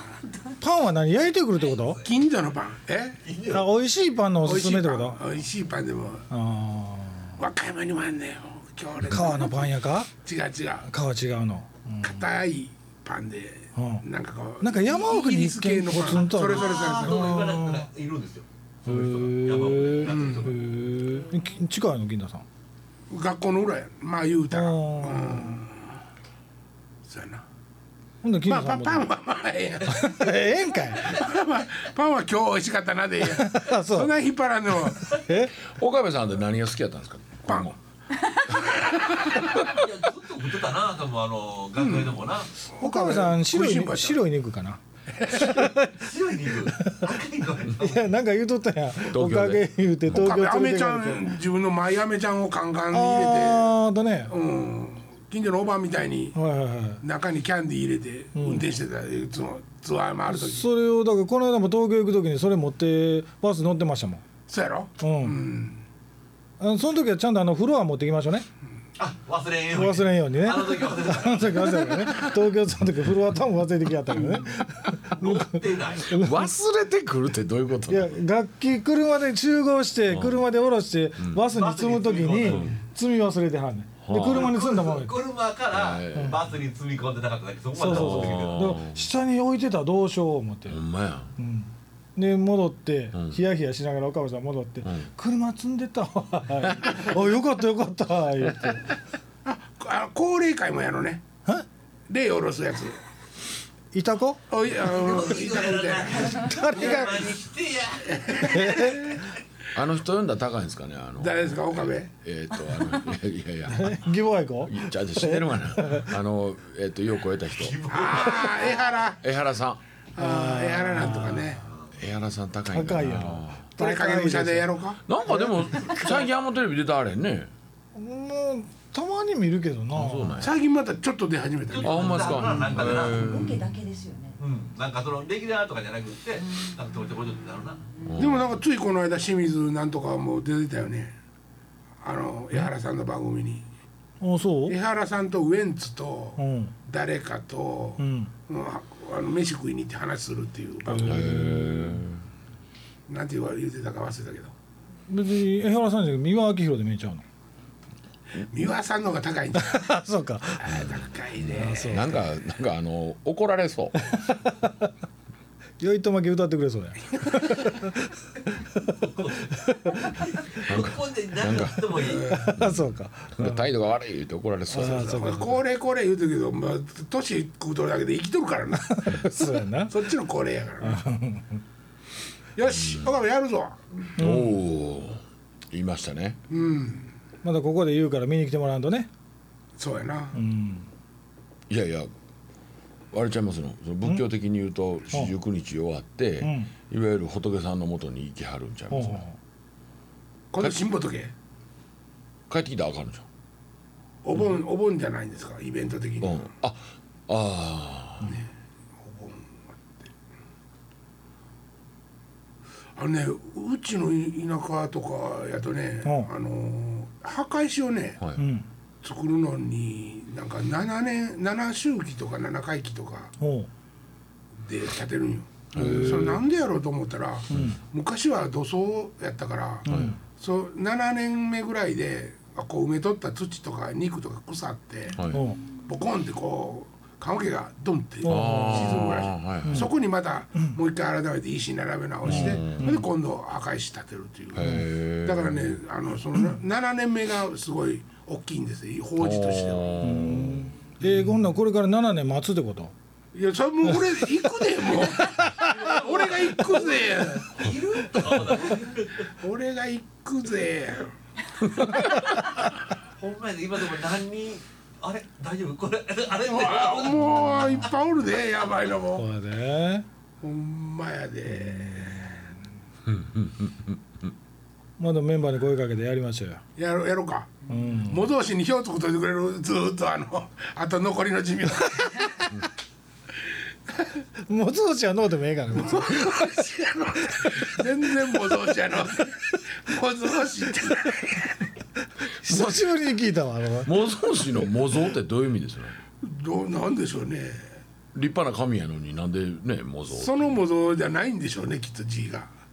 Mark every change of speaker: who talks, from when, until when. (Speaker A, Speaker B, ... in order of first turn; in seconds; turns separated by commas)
Speaker A: 0.6-2.0, Speaker B: 1.6-2.1, Speaker C: 2.0-3.2, Speaker B: 3.2-3.7, Speaker A: 3.5-5.2, Speaker C: 4.4-6.3, Speaker A: 6.3-7.4, Speaker C: 7.4-10.9, Speaker A: 9.0-10.1, Speaker A: 10.9-12.2, Speaker C: 12.0-17.4, Speaker A: 13.8-14.0, Speaker A: 14.6-17.9, Speaker B: 16.3-21.0, Speaker A: 18.9-22.4, Speaker C: 20.1-20.5, Speaker C: 23.1-25.9, Speaker A: 24.5-25.6, Speaker C: 27.1-27.4, Speaker A: 28.2-29.1, Speaker C: 28.4-30.4, Speaker A: 29.9-31.2, Speaker C: 31.0-35.2, Speaker A: 33.2-34.1, Speaker A: 35.1-35.6, Speaker D: 35.6-37.8, Speaker C: 37.5-37.8, Speaker C: 38.7-39.5, Speaker B: 39.4-42.5, Speaker C: 41.8-42.2, Speaker C: 42.7-44.2, Speaker A: 42.8-44.8, Speaker C: 45.1-45.7, Speaker A: 45.3-47.2, Speaker B: 46.0-48.0, Speaker A: 47.7-51.3, Speaker D: 49.1-50.2, Speaker C: 50.1-53.7, Speaker A: 52.9-54.3, Speaker C: 54.3-56.4, Speaker A: 56.4-57.0, Speaker C: 57.0-60.7, Speaker A: 58.4-58.7, Speaker A: 60.3-64.2, Speaker C: 64.5-65.8, Speaker A: 65.0-65.4, Speaker A: 66.6-68.5, Speaker B: 69.0-72.2, Speaker A: 69.7-76.6, Speaker B: 75.1-76.2, Speaker D: 76.1-78.2, Speaker A: 77.9-85.2, Speaker D: 80.1-80.5, Speaker D: 81.2-81.4, Speaker B: 81.5-82.8, Speaker D: 82.5-82.8, Speaker D: 84.0-84.5, Speaker B: 84.2-88.7, Speaker D: 85.7-86.4, Speaker A: 87.8-90.8, Speaker D: 87.9-89.1, Speaker D: 90.7-91.3, Speaker A: 91.4-99.0, Speaker D: 93.1-93.4, Speaker D: 96.6-97.0, Speaker D: 98.5-98.7, Speaker C: 99.5-101.2, Speaker C: 102.1-103.0, Speaker A: 103.9-104.4, Speaker C: 104.5-107.0, Speaker B: 104.7-109.1, Speaker A: 106.4-107.3, Speaker C: 108.1-109.2, Speaker A: 108.5-109.2, Speaker D: 109.7-114.1, Speaker C: 111.2-112.1, Speaker A: 113.7-116.1, Speaker D: 114.7-117.8, Speaker B: 117.5-118.8, Speaker C: 117.9-119.2, Speaker D: 119.2-119.8, Speaker C: 120.2-121.6, Speaker A: 120.2-121.5, Speaker B: 121.6-121.9, Speaker D: 122.0-123.7, Speaker A: 122.7-124.7, Speaker C: 123.8-125.0, Speaker D: 125.1-127.5, Speaker E: 125.8-126.2, Speaker A: 128.0-130.4, Speaker D: 129.9-130.6, Speaker C: 130.4-132.5, Speaker B: 131.7-133.3, Speaker D: 131.8-133.7, Speaker E: 132.8-134.4, Speaker B: 134.4-137.9, Speaker D: 138.1-138.6, Speaker C: 138.2-141.2, Speaker C: 142.0-143.7, Speaker A: 144.2-144.8, Speaker C: 144.7-151.4, Speaker A: 146.4-146.7, Speaker A: 148.0-148.3, Speaker A: 150.9-152.0, Speaker D: 151.0-152.2, Speaker C: 153.1-154.5, Speaker A: 155.1-157.2, Speaker C: 158.4-159.9, Speaker A: 159.6-160.9, Speaker C: 160.6-162.1, Speaker D: 160.7-164.1, Speaker A: 161.5-162.2, Speaker A: 164.0-164.9, Speaker A: 165.8-169.0, Speaker B: 169.0-172.4, Speaker A: 169.5-170.2, Speaker D: 170.7-172.0, Speaker C: 172.0-172.6, Speaker A: 172.2-173.6, Speaker D: 172.5-175.3, Speaker A: 174.7-175.6, Speaker C: 174.8-179.2, Speaker A: 178.8-179.9, Speaker C: 179.9-181.0, Speaker A: 180.8-181.6, Speaker C: 182.6-183.8, Speaker A: 184.2-184.6, Speaker D: 184.2-186.4, Speaker C: 186.5-187.1, Speaker A: 187.4-189.1, Speaker C: 189.8-190.4, Speaker A: 190.3-190.9, Speaker D: 191.7-192.1, Speaker D: 193.1-199.2, Speaker A: 196.4-196.7, Speaker A: 198.9-199.4, Speaker C: 200.5-201.3, Speaker D: 202.5-203.3, Speaker C: 204.2-206.5, Speaker D: 206.2-208.3, Speaker C: 208.3-209.6, Speaker C: 213.0-218.2, Speaker A: 216.0-216.3, Speaker A: 218.3-218.7, Speaker C: 219.0-223.3, Speaker A: 223.4-223.7, Speaker C: 224.6-235.3, Speaker D: 225.7-226.4, Speaker A: 225.8-226.3, Speaker A: 227.5-227.8, Speaker A: 229.9-230.2, Speaker D: 229.9-230.2, Speaker D: 235.2-235.5, Speaker A: 235.3-235.6, Speaker C: 235.9-250.2, Speaker A: 238.2-239.9, Speaker D: 238.2-239.9, Speaker D: 242.2-243.1, Speaker A: 242.3-243.1, Speaker D: 244.5-245.8, Speaker A: 244.6-244.9, Speaker D: 249.2-250.7, Speaker A: 250.0-252.9, Speaker C: 253.3-257.7, Speaker A: 255.0-256.0, Speaker B: 255.6-259.3, Speaker C: 259.3-261.1, Speaker B: 263.2-267.5, Speaker C: 266.4-269.3, Speaker A: 267.5-267.8, Speaker A: 269.1-270.1, Speaker C: 270.4-272.5, Speaker A: 271.5-272.5, Speaker D: 273.1-274.0, Speaker A: 275.0-276.6, Speaker C: 276.8-282.5, Speaker A: 277.7-278.3, Speaker A: 284.5-286.6, Speaker C: 285.8-291.6, Speaker A: 292.2-293.9, Speaker D: 292.5-292.9, Speaker D: 293.9-296.0, Speaker C: 296.2-297.8, Speaker D: 298.1-300.6, Speaker C: 300.1-302.5